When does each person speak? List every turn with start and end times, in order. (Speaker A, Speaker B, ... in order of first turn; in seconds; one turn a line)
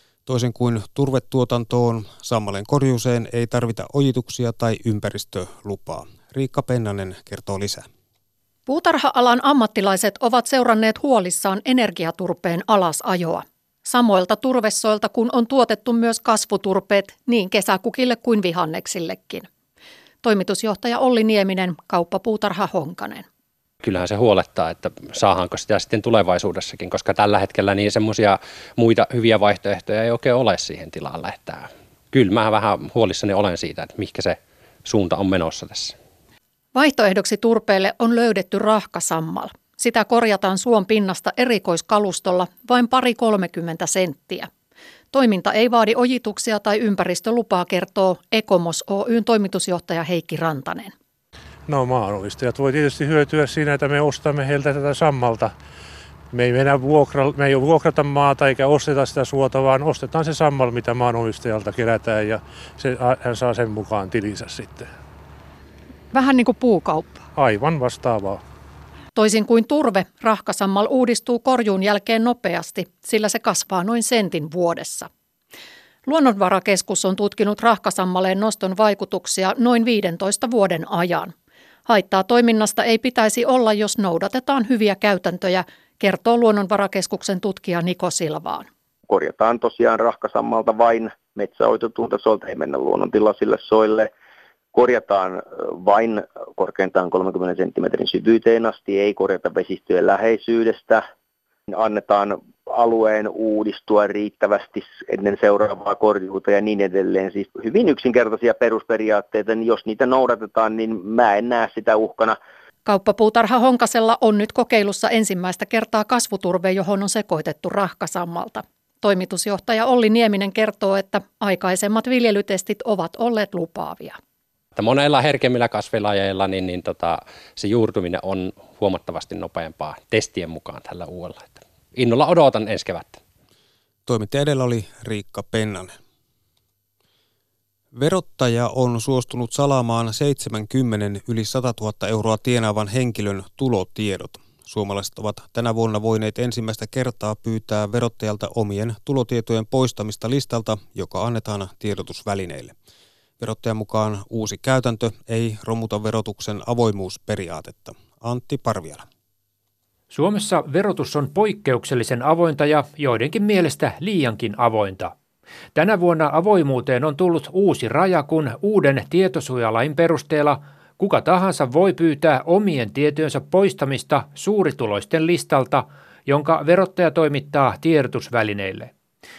Speaker A: 0.2-7.9
Speaker B: 8.7-19.5
Speaker B: 20.2-23.2
Speaker C: 23.8-35.9
Speaker B: 36.7-44.5
Speaker B: 45.1-50.9
Speaker D: 51.7-55.5
Speaker D: 56.3-64.9
Speaker B: 66.1-67.2
Speaker D: 67.3-68.4
Speaker B: 69.1-75.1
Speaker B: 76.0-81.3
Speaker B: 81.9-88.7
Speaker E: 89.1-94.1
Speaker E: 94.7-101.0
Speaker E: 101.7-112.4
Speaker B: 112.8-124.2
Speaker C: 124.7-133.2
Speaker A: 134.1-136.0
Speaker A: 137.9-152.7
Speaker A: 153.4-159.1
Speaker F: 160.1-165.1
Speaker F: 165.7-178.9